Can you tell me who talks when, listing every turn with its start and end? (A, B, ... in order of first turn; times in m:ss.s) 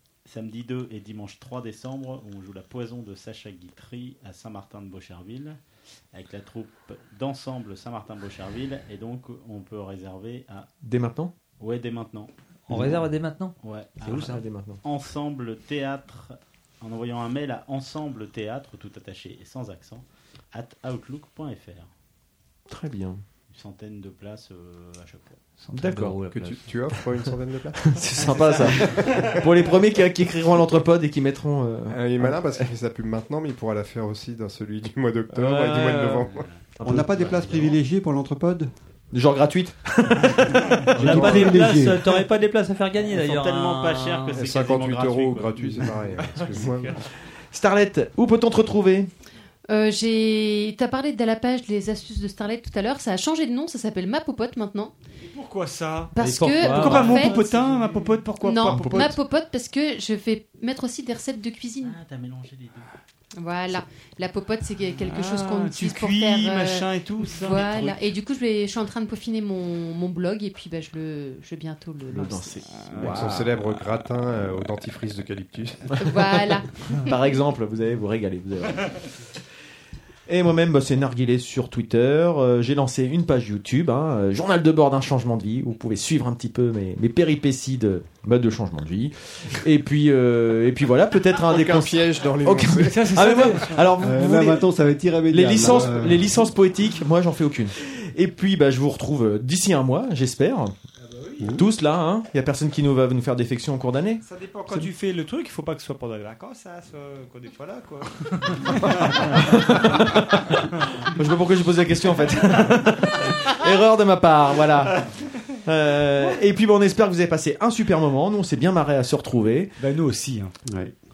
0:00.2-0:05.6 A
0:06.1-0:10.7 A
0:10.8-0:11.3 B
0:11.6-0:13.0 A
0:12.7-0:14.4 C
0:12.7-0:13.0 B
0:13.6-0:21.9 A
0:14.1-0:14.8 B
0:22.7-0:23.2 B
0:23.5-0:25.4 A
0:25.6-0:26.6 C
0:25.8-0:26.2 B
0:26.3-0:29.3 D
0:27.3-0:32.7 B
0:31.9-0:36.5 D
0:35.3-0:36.3 C
0:36.4-0:37.8 A
0:36.8-0:37.6 B
0:36.8-0:38.7 E
0:39.1-0:41.6 B
0:40.9-0:44.4 C
0:40.9-0:42.0 E
0:43.1-0:45.9 A
0:44.3-0:47.0 D
0:46.2-0:46.7 B
0:47.5-0:49.1 B
0:49.7-0:54.9 F
0:55.2-0:59.2 G
0:56.1-0:57.4 F
0:56.2-0:57.4 C
0:58.4-1:02.0 F
0:58.6-0:59.1 B
1:01.8-1:02.9 A
1:03.4-1:12.7 F
1:05.0-1:08.0 G
1:12.1-1:13.8 B
1:13.0-1:15.9 D
1:15.9-1:19.1 B
1:16.0-1:17.4 F
1:20.3-1:34.7 B
1:31.4-1:33.2 D
1:33.1-1:33.9 G
1:34.0-1:36.4 E
1:35.3-1:40.8 B
1:41.1-1:41.6 G
1:41.4-1:41.6 E
1:41.4-1:44.9 B
1:44.2-1:49.3 G
1:49.1-1:55.1 B
1:55.6-1:59.8 B
1:59.8-2:00.5 G
2:00.7-2:01.0 E